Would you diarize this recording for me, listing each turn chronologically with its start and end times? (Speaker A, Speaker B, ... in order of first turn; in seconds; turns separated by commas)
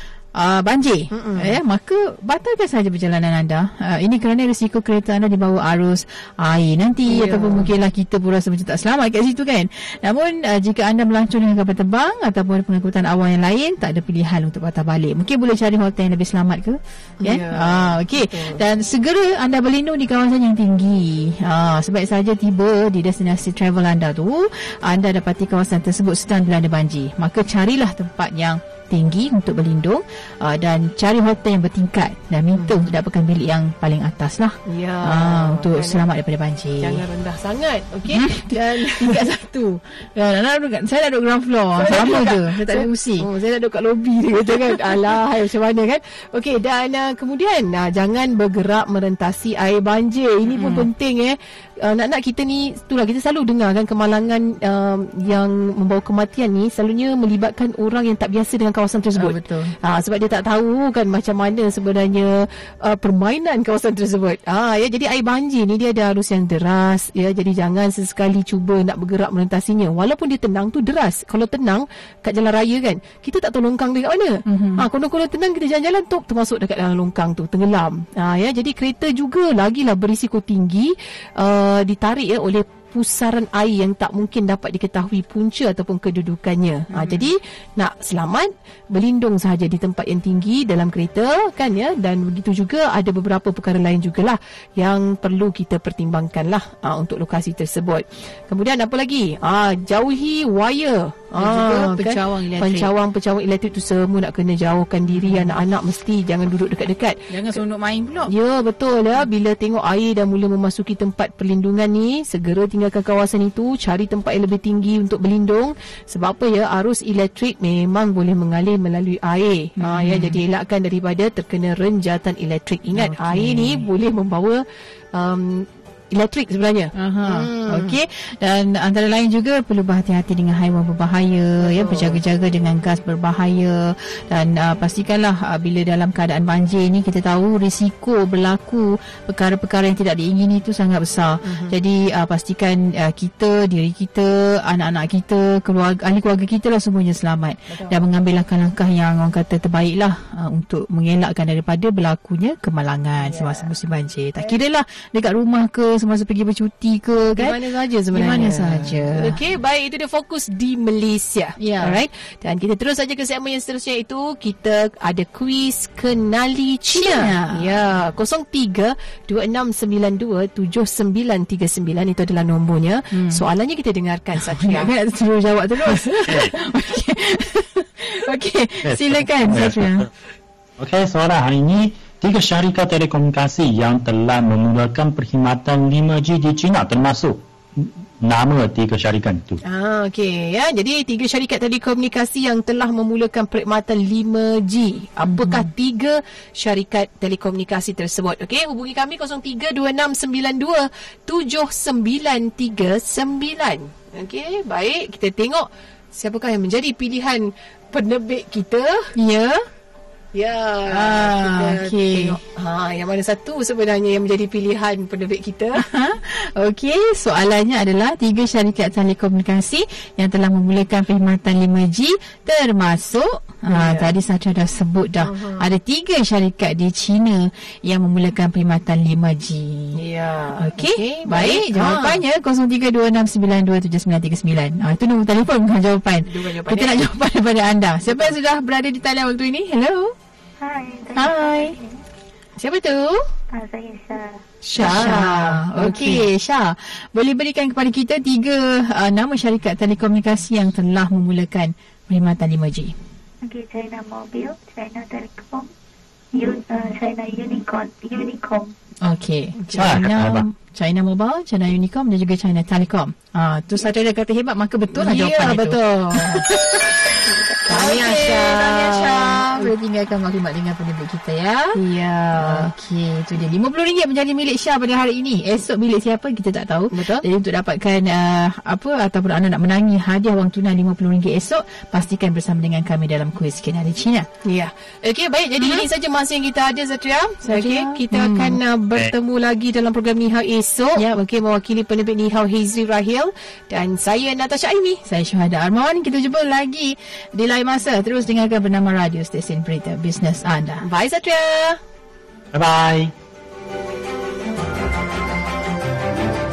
Speaker A: 0.4-37.0, Speaker B: 1.1-1.6, Speaker B: 7.1-7.7, Speaker B: 17.2-18.6, Speaker B: 34.7-36.1, Speaker B: 36.8-39.4, Speaker A: 38.1-43.3, Speaker B: 41.8-107.6, Speaker A: 50.5-50.9, Speaker A: 59.2-59.7, Speaker A: 74.5-74.8, Speaker A: 86.9-87.3, Speaker A: 101.4-102.9, Speaker A: 105.1-105.5, Speaker A: 107.3-108.3, Speaker B: 108.3-124.6, Speaker A: 119.8-120.4, Speaker A: 122.9-123.8, Speaker B: 125.1-128.0, Speaker A: 127.0-157.6, Speaker B: 131.6-132.2, Speaker B: 141.4-141.8, Speaker B: 153.2-153.7, Speaker B: 157.3-174.9, Speaker A: 158.1-159.4, Speaker A: 161.6-162.0, Speaker A: 166.9-167.7, Speaker A: 173.1-173.4, Speaker A: 174.5-180.1, Speaker C: 176.3-176.5, Speaker C: 178.8-180.1, Speaker C: 180.8-189.6, Speaker B: 189.7-209.1, Speaker A: 195.2-195.7, Speaker A: 209.2-209.7, Speaker B: 210.3-215.8, Speaker A: 210.9-212.4, Speaker A: 215.8-230.0, Speaker B: 223.7-224.1, Speaker B: 225.2-225.7, Speaker B: 229.9-232.2, Speaker A: 230.6-240.1, Speaker B: 236.3-237.0, Speaker D: 240.6-242.0, Speaker A: 241.2-241.8, Speaker B: 242.6-243.3, Speaker D: 243.5-244.4, Speaker B: 244.6-246.3, Speaker A: 244.8-252.9, Speaker D: 253.4-255.7, Speaker D: 256.3-258.7, Speaker A: 259.0-271.8, Speaker C: 259.8-260.4, Speaker B: 264.9-267.0, Speaker B: 267.6-269.7, Speaker B: 271.8-272.7, Speaker A: 272.4-284.3, Speaker B: 276.9-277.2, Speaker B: 284.4-295.0, Speaker A: 285.6-285.9, Speaker A: 287.4-288.6, Speaker A: 295.1-300.9, Speaker B: 300.8-301.8, Speaker C: 302.5-303.1